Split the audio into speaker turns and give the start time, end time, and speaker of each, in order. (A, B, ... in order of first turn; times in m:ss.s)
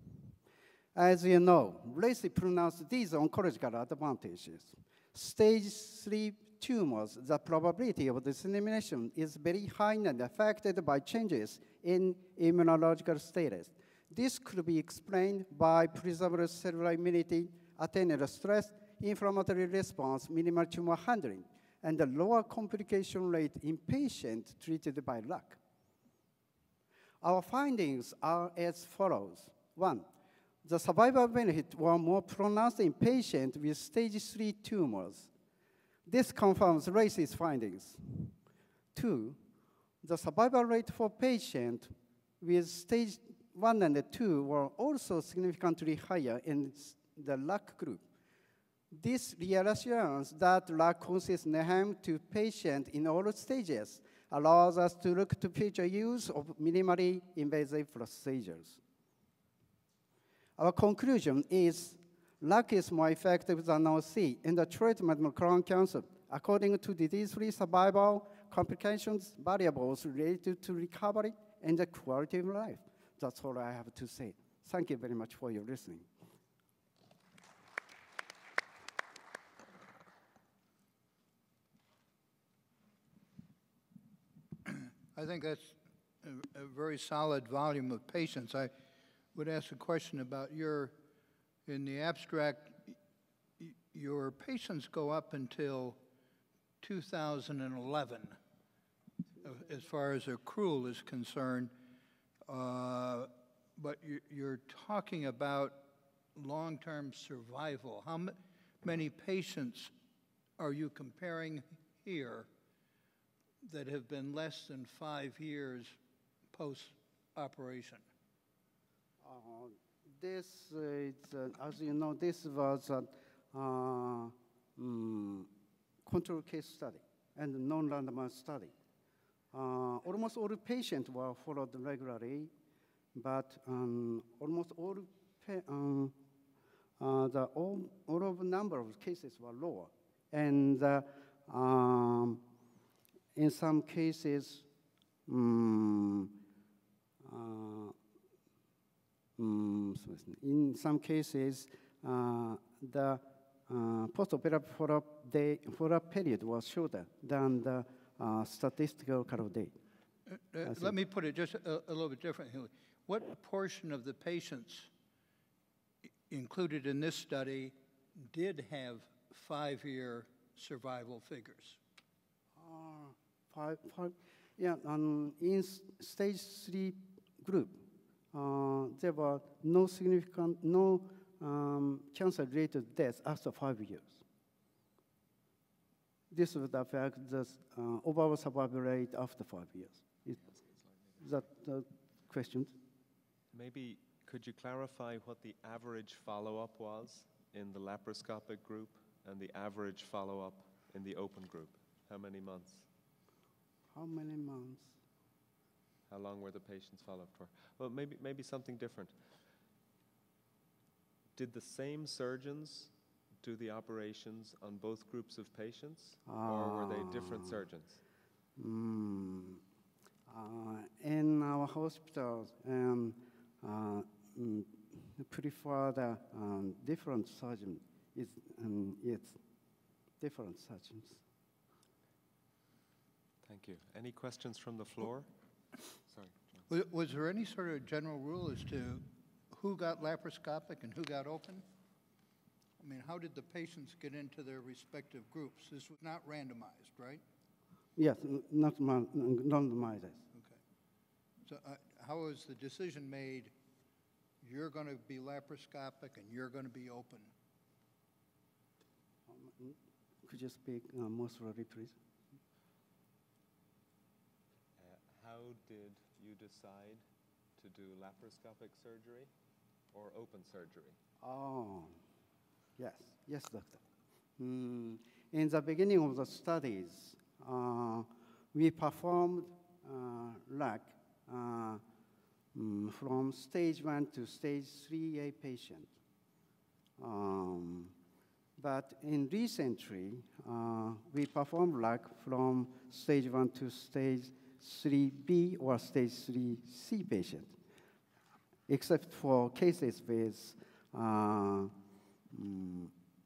0:01.0-0:25.6 A
0:27.2-0:30.1 A
0:30.6-0:35.3 A
0:36.1-0:38.3 A
0:38.9-0:39.4 A
0:40.0-0:48.0 A
0:48.9-0:58.8 A
1:00.6-1:16.1 A
1:24.6-1:28.7 B
1:29.4-1:31.0 B
1:31.7-1:33.0 B
1:33.6-1:36.0 B
1:36.8-1:38.4 B
1:39.4-1:41.7 B
1:42.5-1:45.8 B
1:46.4-1:49.9 B
1:50.6-1:52.5 B
1:53.6-1:56.0 B
1:56.5-1:58.0 B
1:59.2-2:05.5 A
2:06.0-2:08.7 A
2:09.5-2:12.5 A
2:13.1-2:16.1 A
2:17.0-2:22.4 A
2:23.4-2:24.7 A
2:25.3-2:26.3 A
2:27.2-2:28.0 A
2:29.4-2:39.7 A
2:40.4-2:44.9 B
2:40.7-2:40.9 A
2:46.3-2:51.8 B
2:52.6-2:57.8 A
2:58.3-3:04.2 A
3:06.3-3:10.4 A
3:11.2-3:12.7 A
3:13.5-3:22.9 C
3:23.9-3:25.0 A
3:26.1-3:29.1 C
3:31.4-3:38.0 C
3:36.3-3:37.5 A
3:38.6-3:39.6 A
3:40.3-3:49.4 A
3:50.2-3:51.2 A
3:53.4-3:55.3 C
3:56.1-3:56.4 C
3:56.7-4:01.6 B
4:02.8-4:07.2 B
4:08.0-4:10.2 A
4:11.4-4:13.5 B
4:14.4-4:17.3 B
4:19.3-4:22.0 A
4:24.8-4:27.0 C
4:27.6-4:29.3 C
4:29.9-4:31.0 C
4:31.2-4:32.0 A
4:32.8-4:33.8 A
4:34.4-4:41.8 A
4:42.5-4:45.9 A
4:47.0-4:47.9 A
4:48.6-4:57.5 A
4:58.7-5:01.7 A
5:02.3-5:02.9 A